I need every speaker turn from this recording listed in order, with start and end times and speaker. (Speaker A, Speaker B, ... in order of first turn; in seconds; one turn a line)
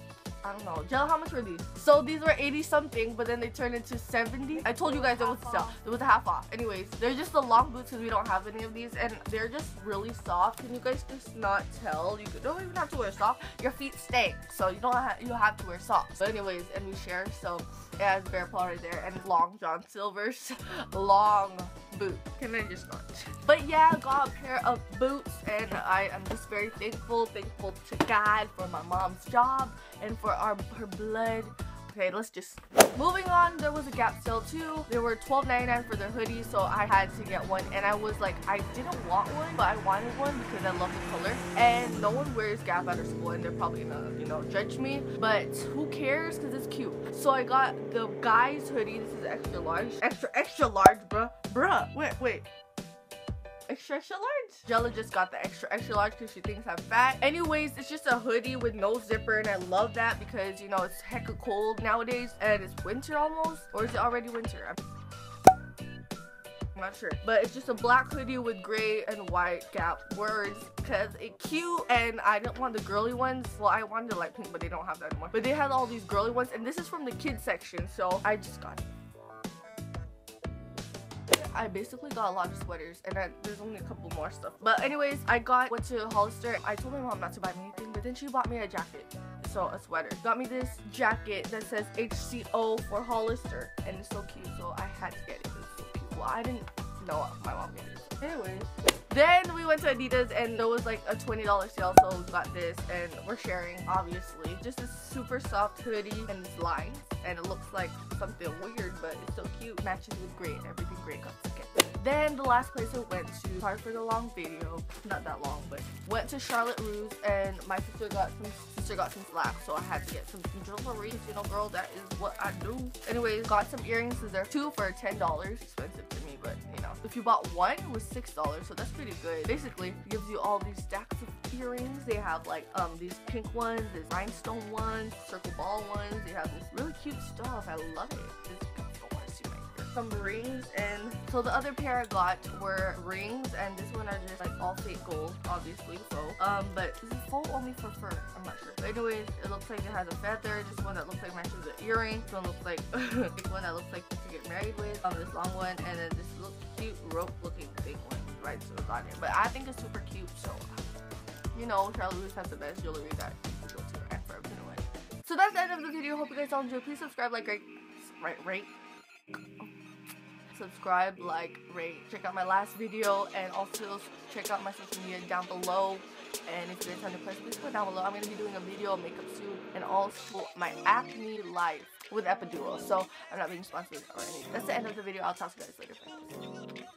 Speaker A: 0.4-52.5
Speaker A: 53.7-64.8
Speaker A: 66.7-78.8
Speaker A: 81.3-160.8
Speaker A: 161.5-168.7
Speaker A: 169.3-169.7
Speaker A: 170.5-186.4